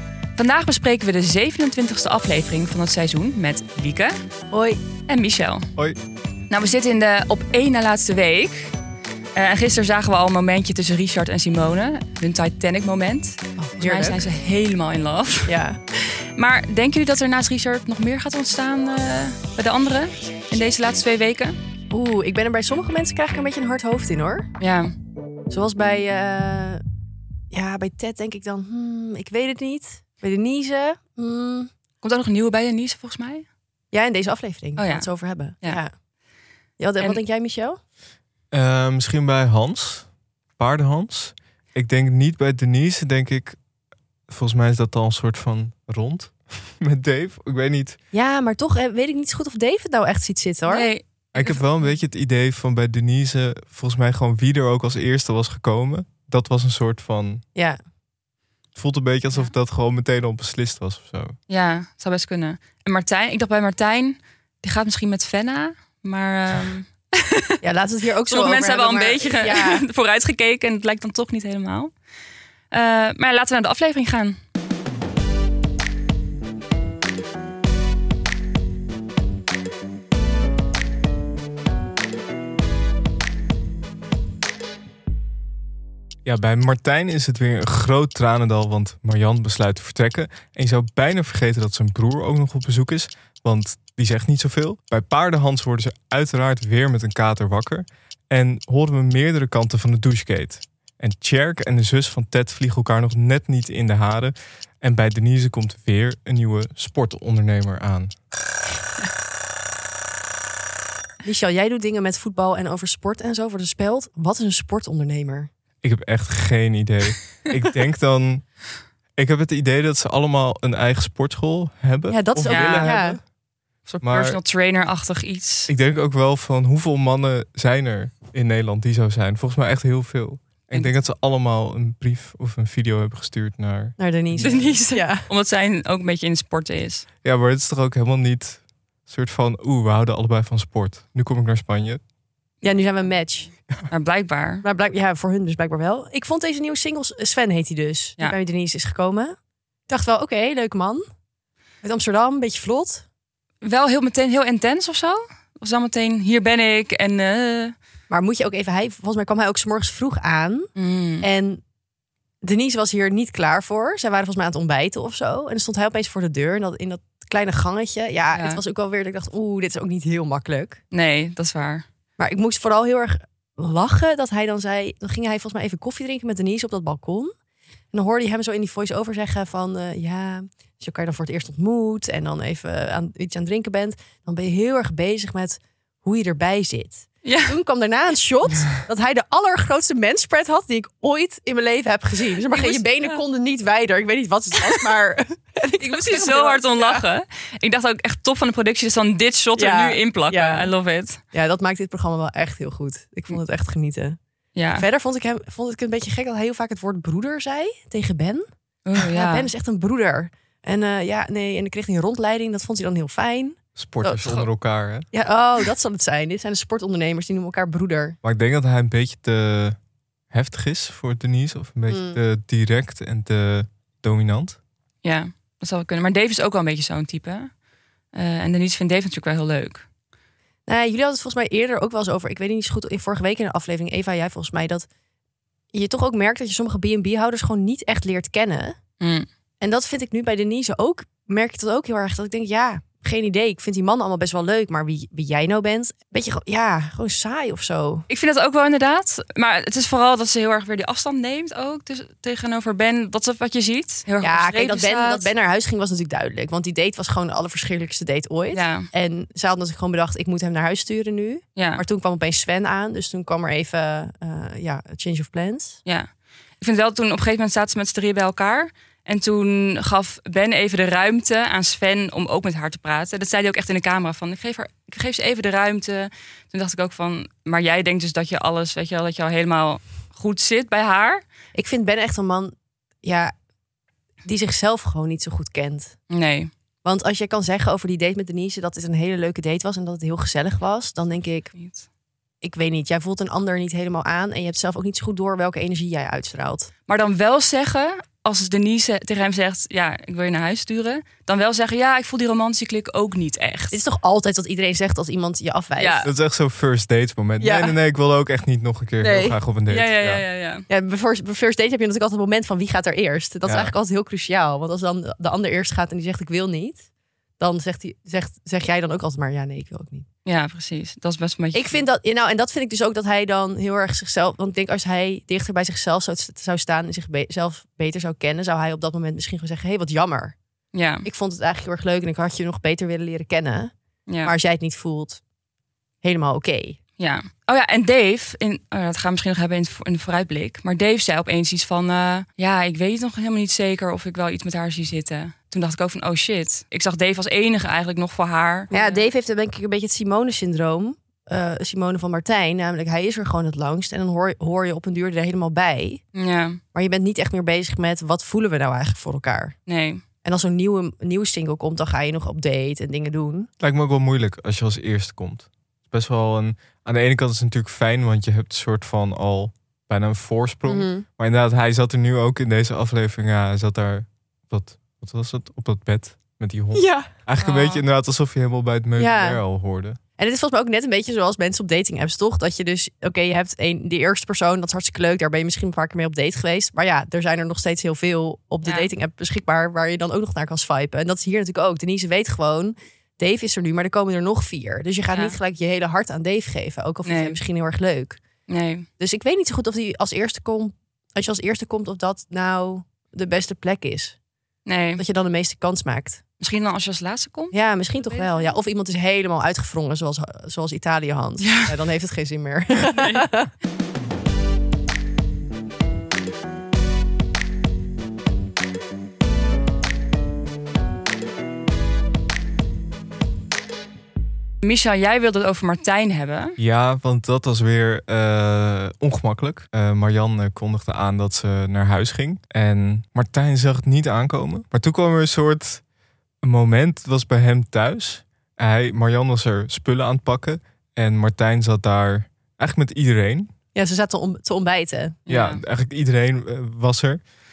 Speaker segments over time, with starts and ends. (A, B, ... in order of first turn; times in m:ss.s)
0:00.4-0:04.2 A
0:04.5-0:04.8 B
0:05.1-0:05.7 A
0:06.5-0:08.7 A
0:09.4-0:15.5 A
0:13.6-0:14.2 B
0:15.5-0:15.8 B
0:16.4-0:21.6 A
0:21.9-0:24.5 B
0:24.6-0:24.9 A
0:25.5-0:26.8 B
0:27.5-0:31.7 B
0:32.0-0:33.4 A
0:33.9-0:35.9 B
0:34.8-0:35.8 A
0:36.8-0:37.8 B
0:38.5-0:43.6 C
0:44.3-0:48.0 C
0:48.1-0:50.9 B
0:50.7-0:51.6 A
0:51.3-0:57.4 C
0:58.8-1:01.4 C
1:01.5-1:07.6 A
1:07.6-1:09.9 B
1:08.3-1:11.9 A
1:12.7-1:14.4 A
1:26.2-1:48.1 C
1:51.2-1:55.5 B
1:55.8-1:58.5 C
1:59.2-2:03.2 C
2:02.1-2:03.2 B
2:02.5-2:03.0 A
2:03.9-2:05.7 A
2:04.0-2:04.4 C
2:05.7-2:14.8 C
2:14.0-2:15.3 B
2:14.4-2:17.1 A
2:17.2-2:22.0 C
2:22.6-2:23.5 B
2:23.9-2:24.6 A
2:24.6-2:29.4 B
2:29.9-2:31.0 B
2:31.8-2:33.0 B
2:33.6-2:37.7 A
2:38.1-2:41.6 B
2:40.8-2:41.3 A
2:42.4-2:50.8 B
2:48.3-2:48.6 A
2:50.9-2:51.8 A
2:52.2-2:57.3 B
2:57.9-3:17.0 B
3:07.2-3:07.5 A
3:12.5-3:13.2 A
3:15.8-3:21.2 A
3:19.6-3:20.7 B
3:21.3-3:24.2 B
3:24.6-3:24.9 A
3:24.8-3:28.4 B
3:28.8-3:29.5 A
3:29.0-3:34.5 B
3:33.8-3:35.1 C
3:35.1-3:38.2 B
3:38.2-3:39.8 C
3:40.3-3:44.6 C
3:41.9-3:42.2 B
3:45.0-3:47.5 A
3:48.1-3:49.9 A
3:50.7-3:54.9 B
3:55.7-3:58.8 B
3:59.0-3:59.3 A
3:59.6-4:08.1 B
4:08.1-4:15.3 A
4:14.2-4:25.8 B
4:18.5-4:18.9 A
4:21.6-4:21.8 A
4:26.6-4:41.2 A
4:41.6-4:43.3 B
4:44.2-4:46.0 B
4:46.1-4:46.5 A
4:46.8-4:51.5 B
4:51.5-4:51.9 A
4:52.4-4:56.7 B
4:56.9-5:03.8 A
5:03.7-5:06.1 B
5:05.8-5:06.1 A
5:06.0-5:10.2 C
5:07.4-5:07.8 B
5:09.0-5:09.4 B
5:09.7-5:10.6 A
5:10.7-5:16.8 B
5:13.4-5:13.7 C
5:17.4-5:20.1 B
5:20.3-5:21.8 A
5:21.5-5:30.4 B
5:30.7-5:31.1 A
5:31.0-5:33.7 B
5:34.1-5:34.3 A
5:34.2-5:35.2 B
5:36.0-5:36.8 B
5:37.0-5:49.0 A
5:48.7-5:56.0 B
5:56.1-5:56.6 A
5:56.7-5:59.6 B
5:59.7-6:00.0 A
6:00.2-6:03.5 B
6:03.6-6:20.0 C
6:10.7-6:11.1 B
6:16.7-6:17.1 B
6:17.4-6:17.9 A
6:19.0-6:19.4 B
6:20.2-6:38.2 B
6:28.6-6:28.9 A
6:35.1-6:35.4 A
6:37.0-6:37.4 A
6:38.5-6:38.9 A
6:39.0-6:44.2 B
6:44.7-6:45.0 A
6:45.0-6:46.2 B
6:46.4-6:48.5 A
6:47.5-6:53.5 B
6:51.4-6:51.7 A
6:52.9-6:53.3 A
7:04.6-7:06.6 A
7:06.6-7:15.8 C
7:16.4-7:23.5 C
7:23.8-7:25.2 B
7:25.3-7:25.6 A
7:25.3-7:27.2 C